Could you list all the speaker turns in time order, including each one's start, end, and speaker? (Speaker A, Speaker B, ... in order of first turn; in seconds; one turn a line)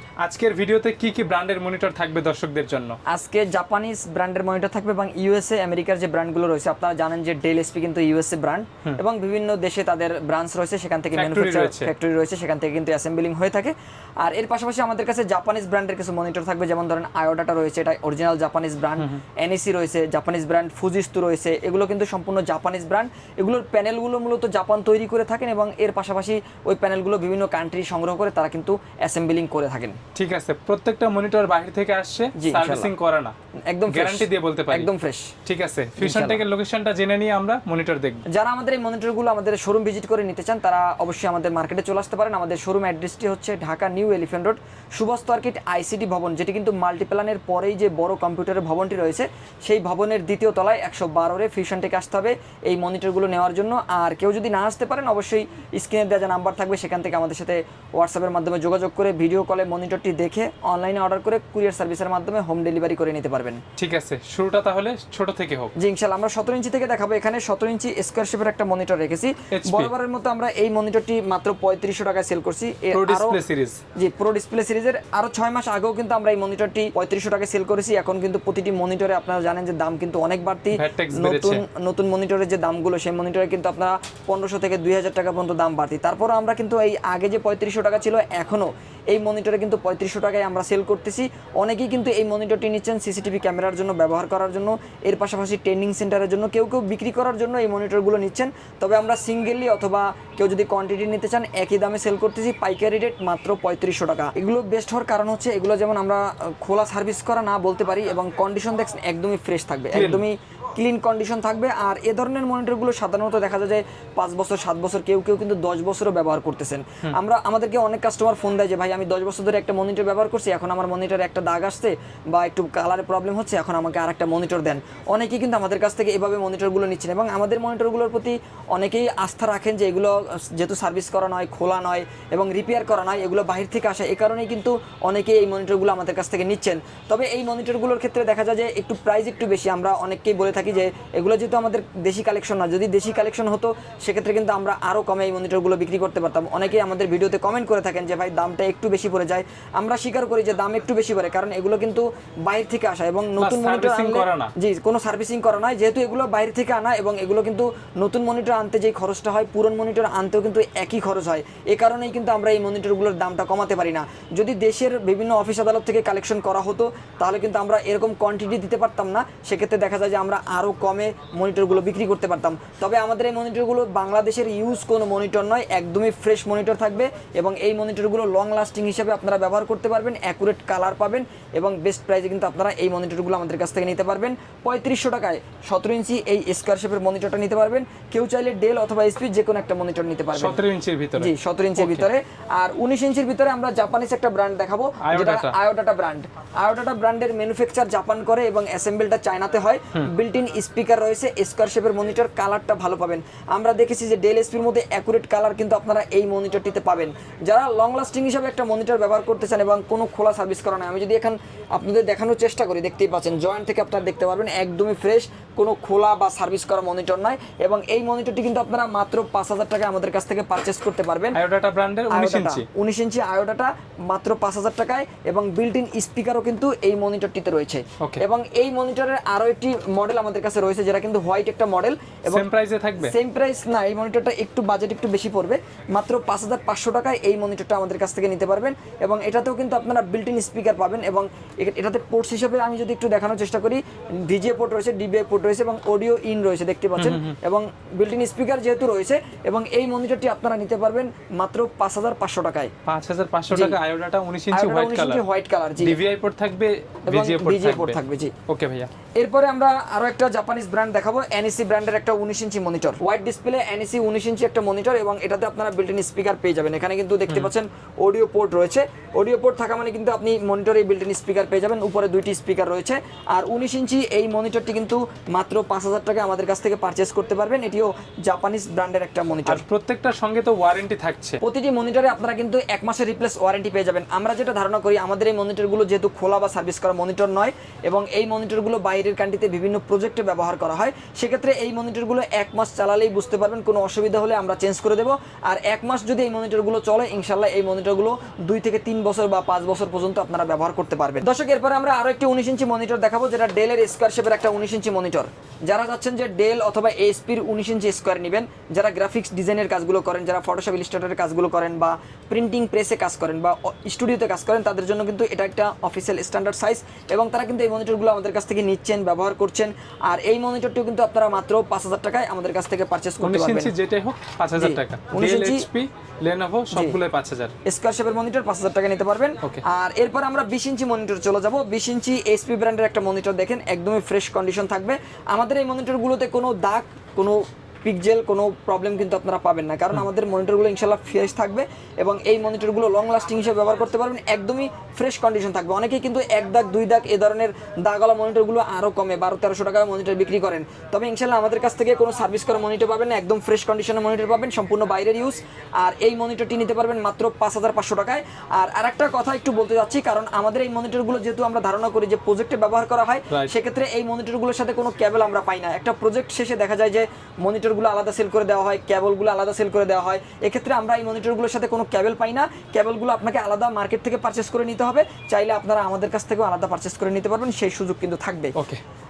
Speaker A: 0.2-3.0
Speaker B: 3.1-30.0
Speaker A: 11.1-11.9
Speaker A: 30.1-33.3
Speaker B: 32.4-32.9
Speaker B: 33.7-35.3
Speaker A: 33.9-34.9
Speaker A: 35.5-38.2
Speaker B: 36.0-36.4
Speaker B: 38.3-63.6
Speaker A: 63.8-65.7
Speaker B: 65.8-73.4
Speaker A: 69.5-69.9
Speaker A: 72.9-73.8
Speaker B: 74.0-190.6
Speaker A: 80.7-81.6
Speaker A: 109.9-110.2
Speaker A: 153.4-154.5
Speaker A: 190.3-192.1
Speaker B: 191.2-221.4
Speaker A: 195.0-195.5
Speaker A: 221.3-222.7
Speaker B: 222.1-232.5
Speaker A: 232.3-233.1
Speaker B: 233.0-252.7
Speaker A: 247.0-247.3
Speaker A: 252.8-255.2
Speaker B: 253.5-253.8
Speaker B: 254.5-256.0
Speaker A: 255.8-258.9
Speaker B: 257.1-258.3
Speaker B: 259.2-279.6
Speaker A: 267.3-267.5
Speaker A: 279.4-281.4
Speaker B: 281.4-323.7
Speaker A: 323.2-327.5
Speaker B: 324.6-325.6
Speaker B: 326.7-327.0
Speaker B: 327.6-378.5
Speaker A: 378.5-378.8